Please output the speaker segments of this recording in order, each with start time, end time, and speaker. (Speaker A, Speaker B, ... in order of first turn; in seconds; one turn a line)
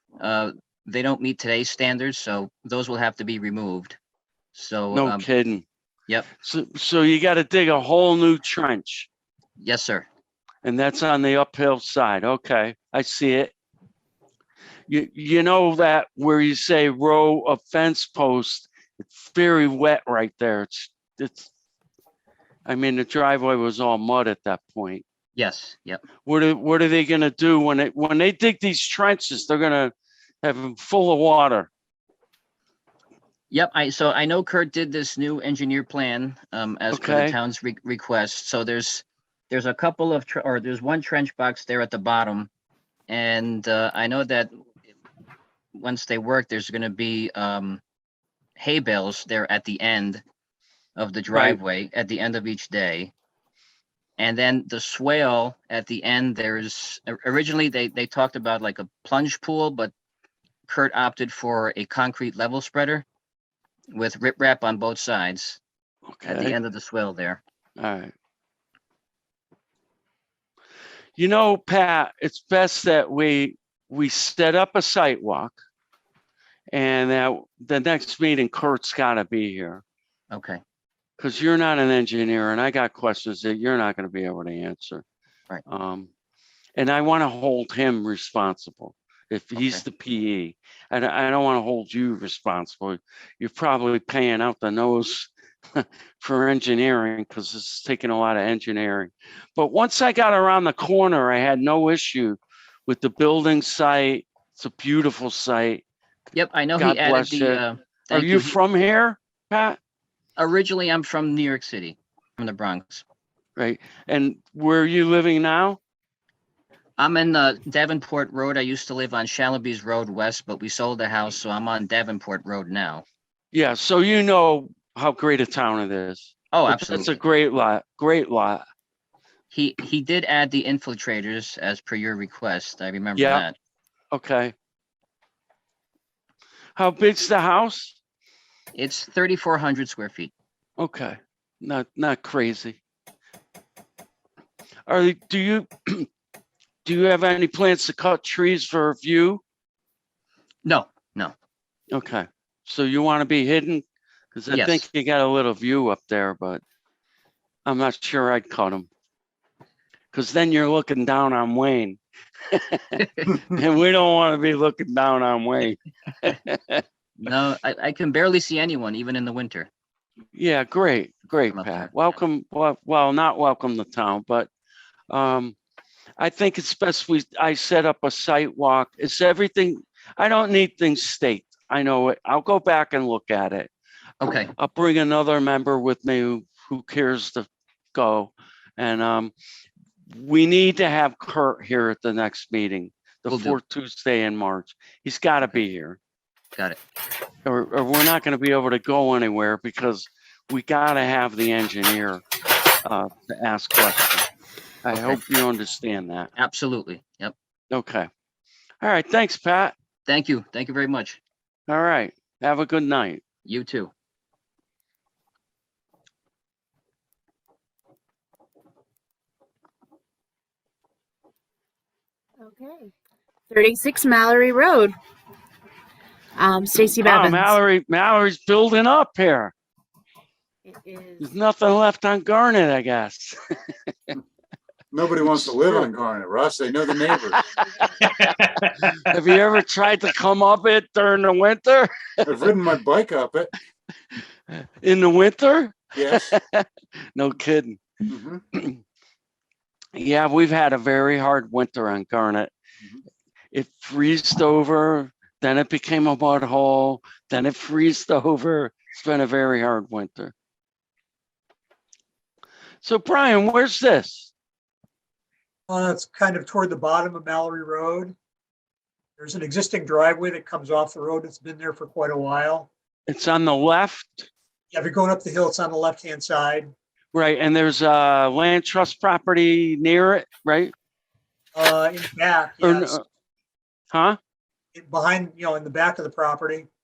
Speaker A: 0.2-4.0
Speaker A: 4.5-5.2
Speaker B: 4.9-5.6
Speaker B: 6.4-9.1
Speaker A: 9.6-10.1
Speaker B: 10.6-13.5
Speaker B: 14.9-21.5
Speaker B: 22.7-25.0
Speaker A: 25.4-26.0
Speaker B: 26.2-31.7
Speaker A: 33.5-42.5
Speaker B: 36.9-37.4
Speaker A: 43.1-44.6
Speaker A: 45.7-47.8
Speaker A: 48.6-50.2
Speaker A: 51.0-53.1
Speaker B: 51.3-51.6
Speaker A: 54.2-59.9
Speaker A: 60.7-63.0
Speaker A: 63.9-65.6
Speaker B: 66.1-66.5
Speaker A: 66.2-67.4
Speaker B: 67.8-68.1
Speaker B: 71.2-75.6
Speaker B: 76.7-79.8
Speaker A: 80.3-80.6
Speaker B: 81.2-85.0
Speaker B: 85.7-86.1
Speaker B: 86.8-105.8
Speaker A: 89.5-89.8
Speaker A: 106.3-108.5
Speaker B: 106.8-109.8
Speaker A: 110.4-113.0
Speaker B: 113.6-115.8
Speaker A: 117.0-123.0
Speaker B: 123.5-128.6
Speaker A: 126.5-127.2
Speaker A: 129.5-133.5
Speaker B: 133.2-133.4
Speaker B: 134.1-134.5
Speaker B: 136.8-137.9
Speaker A: 138.7-140.3
Speaker B: 140.8-142.8
Speaker B: 144.9-146.1
Speaker B: 146.8-149.4
Speaker A: 150.7-151.3
Speaker B: 151.9-156.6
Speaker A: 154.5-154.8
Speaker B: 157.7-158.9
Speaker B: 160.1-166.8
Speaker A: 163.0-163.4
Speaker A: 167.2-169.7
Speaker B: 170.3-174.5
Speaker A: 171.5-172.2
Speaker B: 175.1-175.5
Speaker B: 176.2-183.7
Speaker A: 184.2-184.5
Speaker B: 184.5-189.3
Speaker B: 190.1-196.0
Speaker A: 193.3-193.6
Speaker B: 197.4-202.2
Speaker B: 202.8-204.3
Speaker B: 204.8-206.3
Speaker A: 204.9-205.2
Speaker A: 206.3-207.3
Speaker B: 207.7-208.1
Speaker B: 208.8-209.7
Speaker A: 210.1-211.2
Speaker B: 211.7-213.2
Speaker A: 213.4-213.9
Speaker C: 222.4-222.9
Speaker C: 223.5-224.9
Speaker C: 226.4-227.5
Speaker B: 227.0-229.5
Speaker C: 230.7-231.2
Speaker B: 231.2-233.4
Speaker D: 234.9-237.4
Speaker B: 235.3-235.9
Speaker B: 237.5-242.3
Speaker D: 242.2-243.5
Speaker B: 244.5-247.8
Speaker D: 245.9-246.2
Speaker D: 248.1-248.4
Speaker B: 248.5-248.8
Speaker B: 249.9-252.5
Speaker B: 253.5-260.3
Speaker B: 262.8-264.3
Speaker E: 265.7-268.1
Speaker E: 269.2-272.7
Speaker B: 273.1-274.3
Speaker E: 274.7-276.7
Speaker B: 277.1-280.7
Speaker E: 281.6-283.0
Speaker B: 282.6-283.0
Speaker B: 283.9-284.2
Speaker E: 284.8-286.7